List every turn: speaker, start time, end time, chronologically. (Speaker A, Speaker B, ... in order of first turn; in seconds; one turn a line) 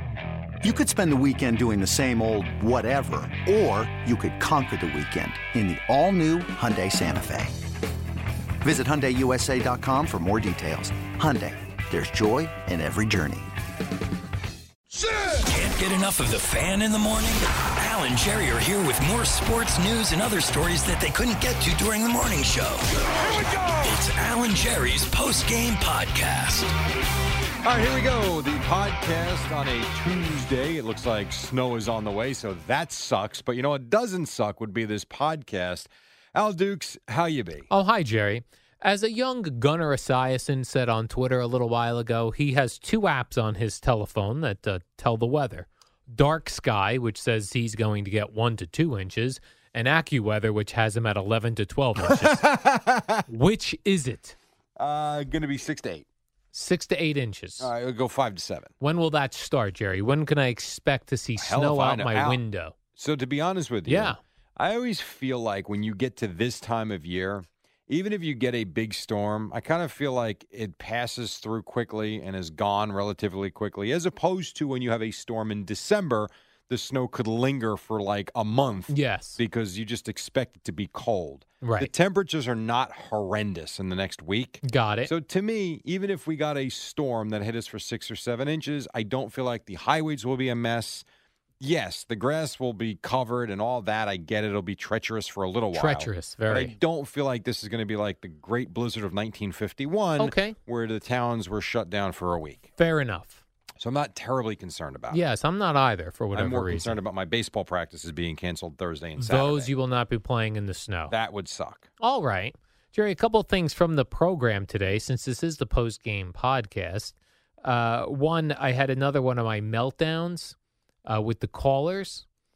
Speaker A: 0.6-7.6
Speaker A: 8.6-13.5
Speaker B: 15.2-26.7
Speaker C: 23.1-24.0
Speaker C: 27.6-37.7
Speaker D: 37.7-52.5
Speaker C: 52.0-53.3
Speaker D: 53.3-54.4
Speaker C: 54.8-56.1
Speaker D: 56.5-57.7
Speaker C: 57.6-58.7
Speaker D: 58.8-62.8
Speaker C: 61.4-62.4
Speaker C: 62.9-91.0
Speaker D: 63.9-64.2
Speaker D: 78.9-79.4
Speaker D: 81.6-81.9
Speaker D: 84.6-85.1
Speaker C: 91.6-102.6
Speaker D: 95.7-96.7
Speaker D: 100.2-100.6
Speaker D: 102.8-103.4
Speaker C: 103.8-105.2
Speaker D: 105.1-107.0
Speaker C: 106.3-109.7
Speaker D: 109.2-111.1
Speaker C: 111.1-111.9
Speaker D: 112.0-120.5
Speaker D: 121.1-122.2